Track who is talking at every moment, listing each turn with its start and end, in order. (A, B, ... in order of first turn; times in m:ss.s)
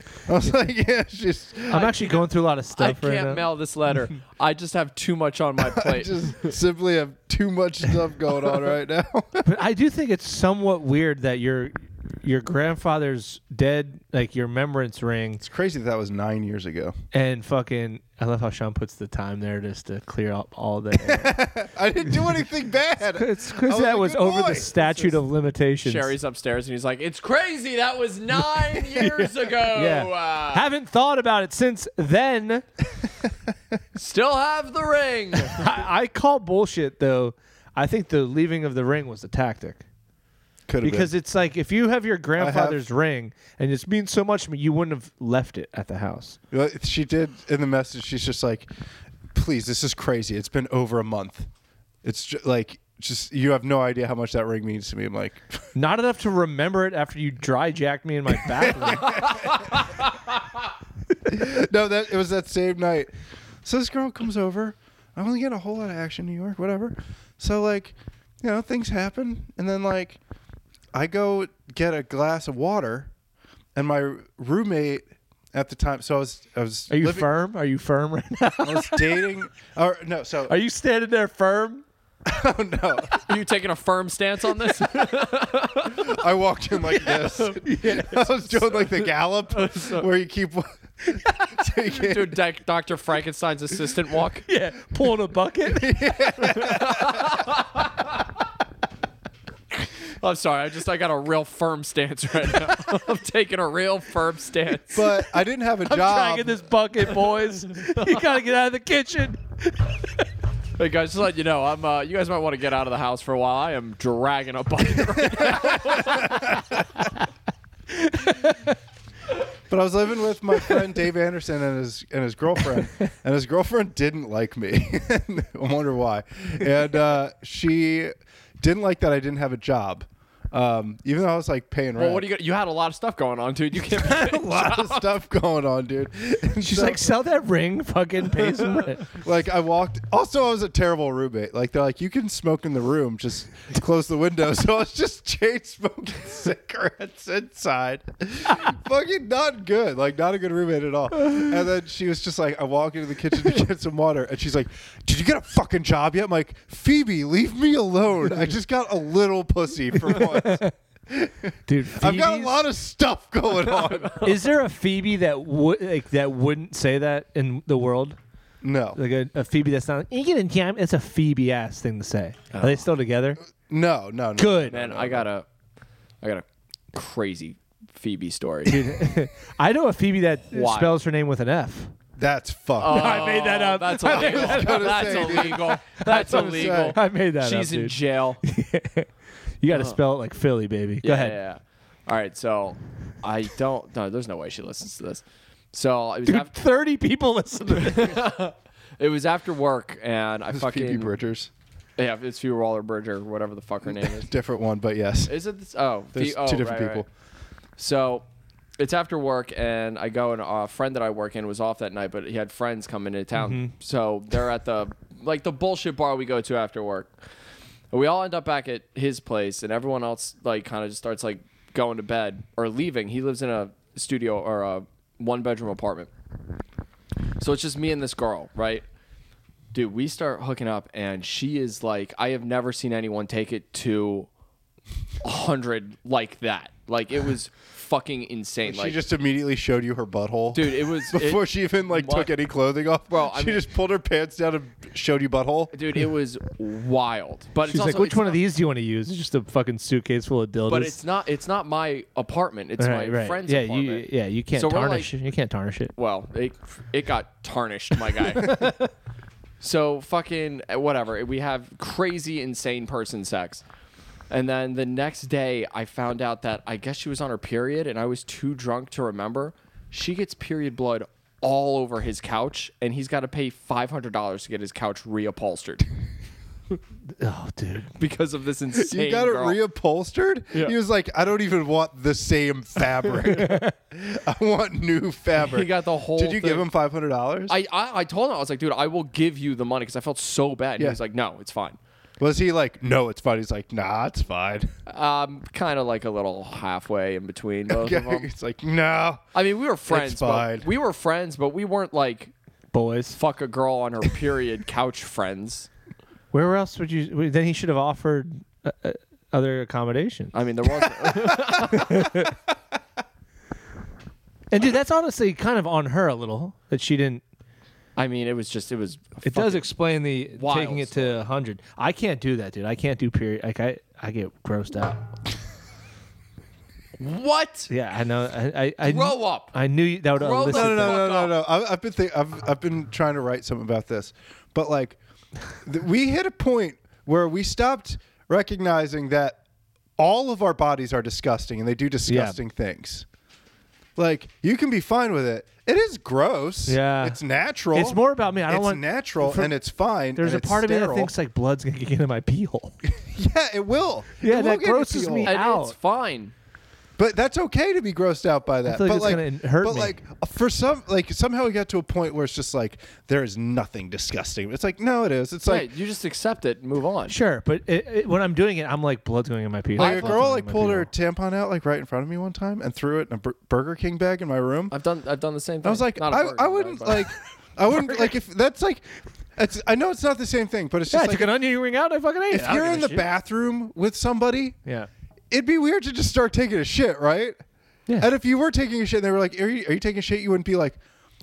0:00.3-0:01.8 A
0:01.7-0:03.4 B
0:01.7-0:06.6 C
0:05.6-0:09.5 A
0:09.4-0:15.4 B
0:15.4-0:16.9 A
0:17.1-0:21.4 B
0:21.0-0:25.1 A
0:23.2-0:26.1 B
0:25.8-0:30.7 C
0:29.0-0:32.6 B
0:33.9-0:35.7 C
0:35.4-0:39.8 B
0:40.7-0:41.1 A
0:40.8-0:46.4 B
0:42.4-0:42.8 A
0:46.5-0:48.7 A
0:49.3-0:51.5 A
0:52.0-0:55.6 A
0:55.7-0:59.4 B
0:58.6-0:59.5 A
0:59.1-0:59.8 C
1:01.2-1:03.1 A
1:03.6-1:10.2 A
1:10.9-1:13.1 A
1:13.7-1:17.3 A
1:16.9-1:19.3 B
1:18.6-1:20.6 A
1:20.5-1:21.8 B
1:22.2-1:23.3 A
1:23.2-1:26.2 C
1:25.8-1:32.4 A
1:26.8-1:27.9 C
1:27.6-1:28.3 B
1:28.6-1:30.1 C
1:31.8-1:34.4 C
1:34.5-1:36.3 B
1:35.6-1:37.4 A
1:36.5-1:38.2 C
1:40.2-1:45.1 C
1:44.9-1:46.6 A
1:45.8-1:50.0 B
1:47.1-1:48.3 C
1:50.8-1:56.6 C
1:55.3-1:56.6 A
1:57.9-1:58.7 B
1:59.7-2:12.3 A
2:12.0-2:15.1 C
2:13.9-2:17.1 A
2:16.6-2:19.1 B
2:19.0-2:44.2 A
2:40.1-2:40.7 B
2:41.7-2:42.6 B
2:43.6-2:44.4 C
2:44.2-2:48.2 B
2:48.6-2:49.0 A
2:48.9-2:53.4 B
2:52.5-2:52.9 C
2:53.7-2:55.3 A
2:54.4-2:54.7 B
2:54.7-2:55.4 C
2:56.2-2:59.0 C
2:58.6-3:01.9 B
3:00.5-3:00.9 C
3:02.2-3:07.0 A
3:02.8-3:08.4 C
3:02.8-3:09.1 B
3:09.6-3:11.4 B
3:09.7-3:10.0 C
3:11.0-3:16.5 C
3:16.2-3:18.2 B
3:17.7-3:21.1 C
3:20.5-3:21.5 A
3:22.0-3:24.3 C
3:23.8-3:25.4 A
3:25.3-3:27.0 C
3:26.1-3:27.1 A
3:27.8-3:28.2 C
3:28.8-3:37.1 C
3:33.4-3:33.7 B
3:37.9-3:46.1 C
3:47.4-3:48.8 C
3:49.7-3:54.3 C
3:55.2-3:59.0 C
3:58.6-4:05.7 A
4:00.5-4:02.3 C
4:03.1-4:03.6 C
4:05.7-4:08.4 C
4:07.7-4:11.0 B
4:10.7-4:15.1 C
4:12.8-4:15.9 B
4:16.0-4:18.7 C
4:18.4-4:18.9 B
4:19.6-4:23.6 C
4:24.3-4:35.9 C
4:37.2-4:37.9 B
4:38.0-4:39.6 C
4:38.7-4:47.6 A
4:43.2-4:43.7 B
4:45.4-4:46.7 C
4:47.5-4:51.8 C
4:52.2-4:54.7 A
4:54.9-4:58.3 C
4:57.7-4:59.2 A
4:59.3-5:02.3 C
4:59.9-5:00.7 A
5:02.7-5:03.2 B
5:03.1-5:05.7 C
5:06.3-5:10.3 B
5:10.3-5:12.2 C
5:11.6-5:12.4 B
5:14.5-5:17.2 B
5:18.0-5:19.7 C
5:19.2-5:25.0 B
5:20.3-5:21.2 C
5:27.0-5:27.7 C
5:27.7-5:31.0 B
5:28.8-5:29.5 C
5:30.2-5:31.3 C
5:30.5-5:35.0 A
5:35.6-5:39.4 A
5:40.0-5:43.0 A
5:42.1-5:42.4 B
5:44.0-5:51.1 A
5:46.7-5:47.2 B
5:47.7-5:49.5 B
5:50.1-5:52.8 B
5:52.8-5:55.3 A
5:54.2-5:55.7 B
5:55.2-5:56.3 C
5:57.0-6:05.7 A
5:58.6-6:00.0 B
6:05.4-6:07.2 C
6:07.1-6:10.9 B
6:09.8-6:10.2 C
6:09.8-6:14.7 A
6:14.7-6:17.1 C
6:15.6-6:21.4 A
6:17.7-6:18.1 C
6:20.9-6:23.0 B
6:22.3-6:24.6 A
6:25.3-6:27.4 A
6:28.0-6:30.8 A